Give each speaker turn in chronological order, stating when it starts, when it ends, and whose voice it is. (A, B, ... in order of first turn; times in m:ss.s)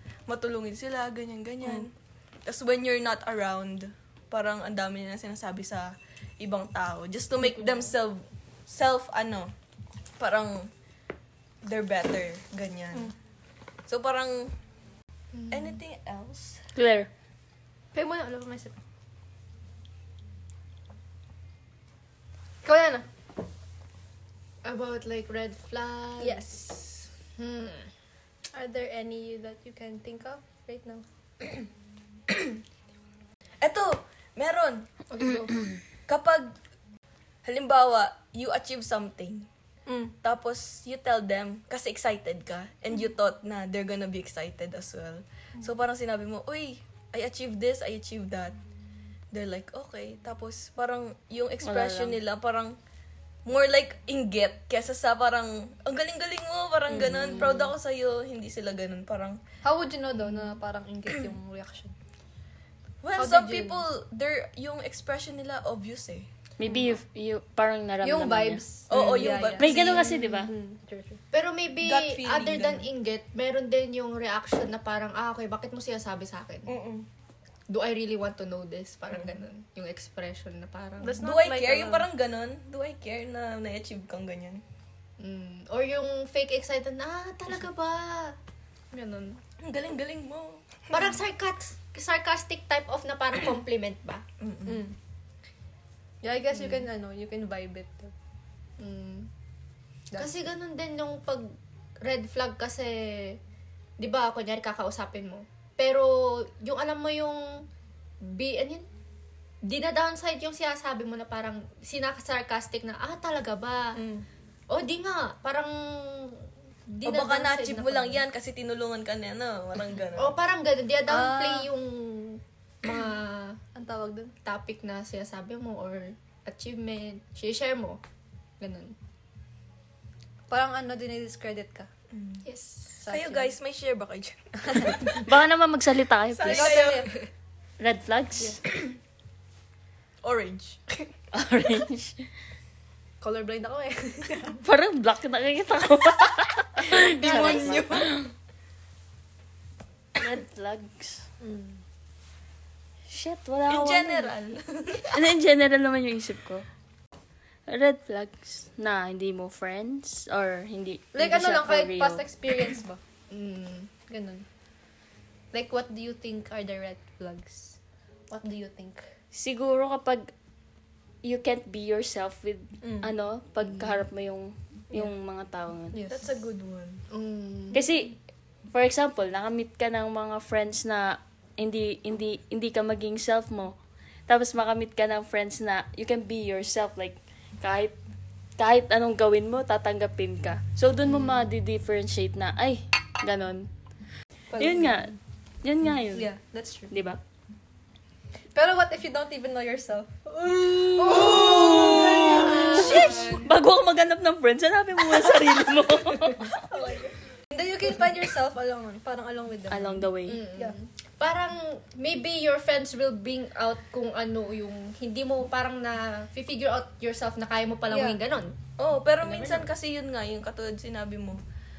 0:00.3-0:01.9 A
0:02.4-0:09.5 A
0:07.5-0:07.8 B
0:10.2-0:10.7 A
0:11.6-0:13.1 A
0:13.9-0:14.5 A
0:15.3-0:15.8 C
0:15.5-0:16.7 A
0:16.8-0:17.1 D
0:17.9-0:18.8 B
0:22.6-0:23.1 B
0:24.6-0:26.4 C
0:26.2-0:27.1 B
0:27.4-0:27.9 C
0:28.5-0:31.7 B
0:33.6-0:34.9 A
0:35.1-0:35.6 C
0:36.1-0:36.5 A
0:37.4-0:39.5 A
0:39.9-0:40.2 B
0:40.2-0:48.6 A
0:49.3-0:52.8 A
0:51.6-0:52.2 D
0:53.5-0:59.4 A
0:56.9-0:57.4 B
0:57.1-0:57.6 D
0:59.6-1:01.9 B
1:03.0-1:06.3 A
1:03.2-1:03.8 B
1:06.6-1:08.6 D
1:08.0-1:11.2 B
1:08.9-1:10.1 A
1:09.6-1:10.5 D
1:11.3-1:16.7 C
1:11.8-1:12.9 A
1:16.7-1:17.1 B
1:17.7-1:21.2 C
1:21.0-1:22.1 B
1:21.2-1:24.6 A
1:25.2-1:28.4 C
1:28.9-1:29.4 C
1:29.6-1:30.8 A
1:30.9-1:34.2 C
1:34.4-1:34.8 A
1:34.7-1:35.0 B
1:36.2-1:38.1 B
1:38.8-1:39.3 C
1:40.2-1:43.4 C
1:44.0-1:47.6 C
1:48.2-1:48.9 C
1:49.6-1:54.0 C
1:54.0-1:54.2 B
1:54.7-1:58.2 C
1:57.0-2:00.4 A
2:00.2-2:03.6 C
2:01.1-2:01.7 B
2:03.8-2:04.3 B
2:04.4-2:08.0 C
2:08.6-2:08.9 B
2:10.5-2:11.9 B
2:12.1-2:12.4 A
2:12.4-2:13.0 C
2:13.0-2:13.5 B
2:13.0-2:15.2 A
2:14.7-2:15.2 B
2:15.2-2:16.9 D
2:16.3-2:17.1 A
2:16.5-2:17.2 B
2:17.8-2:18.6 D
2:20.2-2:21.1 A
2:21.3-2:22.2 D
2:23.2-2:24.6 B
2:24.6-2:28.3 D
2:26.8-2:28.3 A
2:27.2-2:27.7 C
2:30.2-2:31.3 D
2:31.4-2:31.8 B
2:33.1-2:34.3 D
2:33.7-2:35.2 A
2:35.1-2:36.6 D
2:37.7-2:42.2 D
2:41.1-2:43.0 B
2:43.3-2:43.9 C
2:44.1-2:44.4 B
2:45.5-2:47.8 B
2:48.3-2:49.0 B
2:49.3-2:50.3 D
2:51.2-2:56.0 D
2:52.8-2:53.1 B
2:55.9-2:56.3 B
2:56.1-2:57.0 A
2:57.1-2:57.8 C
2:57.7-2:58.2 D
2:58.7-3:03.8 D
3:04.3-3:08.0 D
3:08.6-3:13.7 D
3:14.5-3:15.1 B
3:14.6-3:16.3 D
3:16.1-3:16.9 B
3:16.9-3:17.2 D
3:18.6-3:23.4 B
3:20.7-3:26.6 D
3:21.1-3:23.3 A
3:22.5-3:23.4 C
3:25.9-3:30.8 B
3:29.7-3:30.4 D
3:30.3-3:38.6 C
3:37.9-3:38.2 B
3:38.8-3:41.4 A
3:39.2-3:39.7 C